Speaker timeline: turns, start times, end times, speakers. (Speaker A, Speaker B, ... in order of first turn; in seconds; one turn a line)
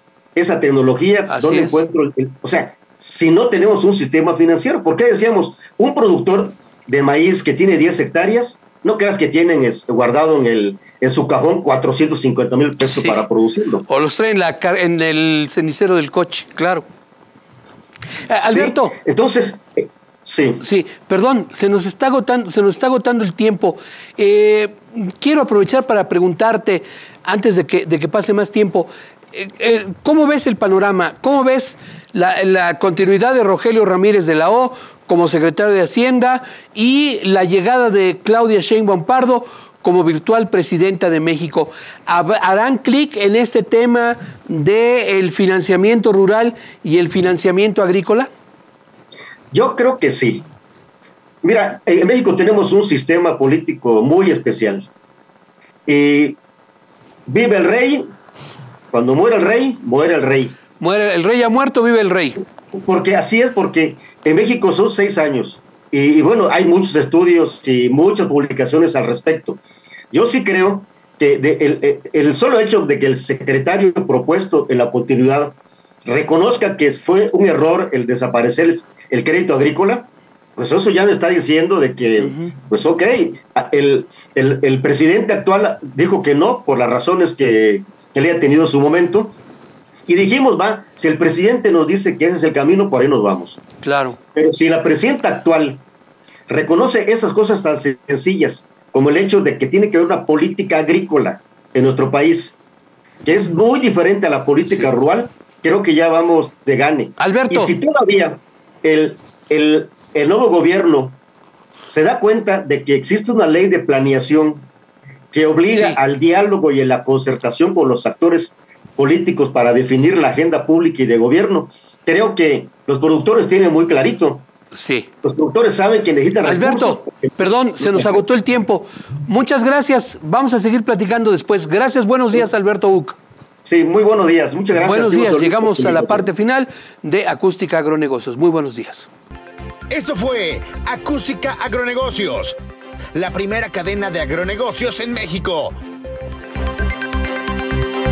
Speaker A: 0.3-13.8
Speaker B: 1.3-1.8
Speaker B: 12.8-13.2
Speaker B: 13.9-16.8
Speaker B: 18.3-18.9
Speaker A: 18.4-20.6
Speaker B: 20.6-48.3
Speaker A: 49.5-50.5
Speaker A: 51.4-54.9
Speaker A: 55.9-56.4
Speaker A: 57.3-58.1
Speaker A: 58.9-60.5
Speaker B: 60.8-62.4
Speaker A: 62.7-69.6
Speaker A: 70.1-89.3
Speaker B: 82.2-82.5
Speaker A: 90.1-93.6
Speaker B: 93.8-94.2
Speaker A: 94.3-95.8
Speaker A: 96.5-102.6
Speaker A: 103.2-111.2
Speaker B: 107.2-107.7
Speaker A: 111.9-114.7
Speaker A: 115.3-124.4
Speaker B: 115.7-116.0
Speaker B: 124.7-125.1
Speaker A: 125.2-128.2
Speaker B: 126.4-133.2
Speaker A: 133.6-136.3
Speaker B: 134.7-139.1
Speaker C: 139.9-142.6
Speaker C: 143.1-145.7